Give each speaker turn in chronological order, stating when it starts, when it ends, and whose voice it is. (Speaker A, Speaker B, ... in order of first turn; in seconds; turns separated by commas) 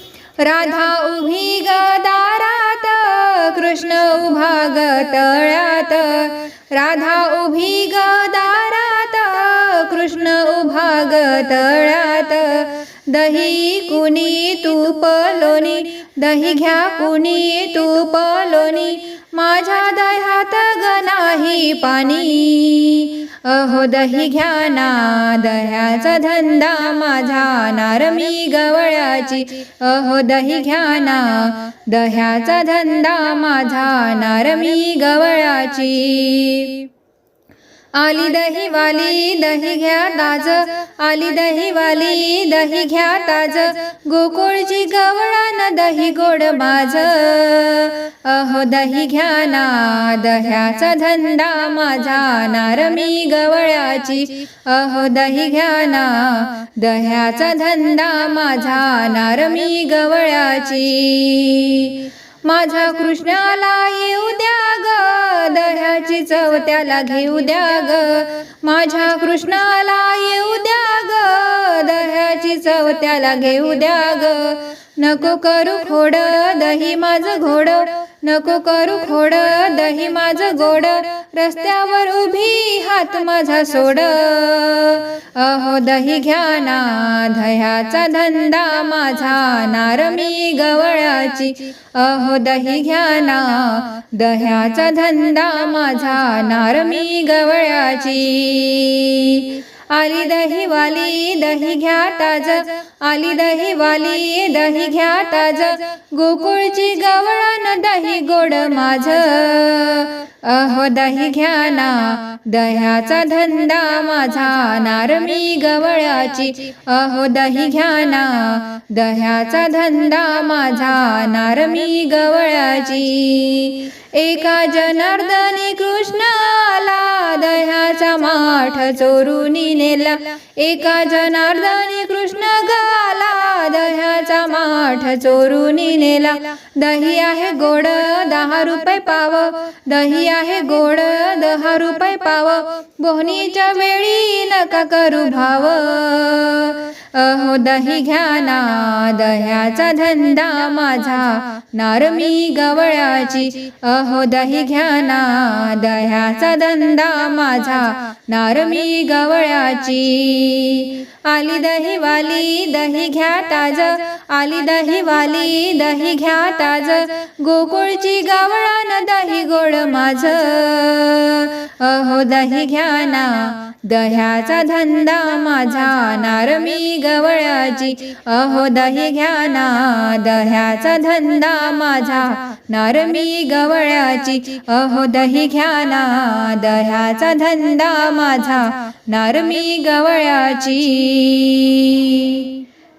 Speaker A: 0.4-36.9, Speaker A: 37.9-192.6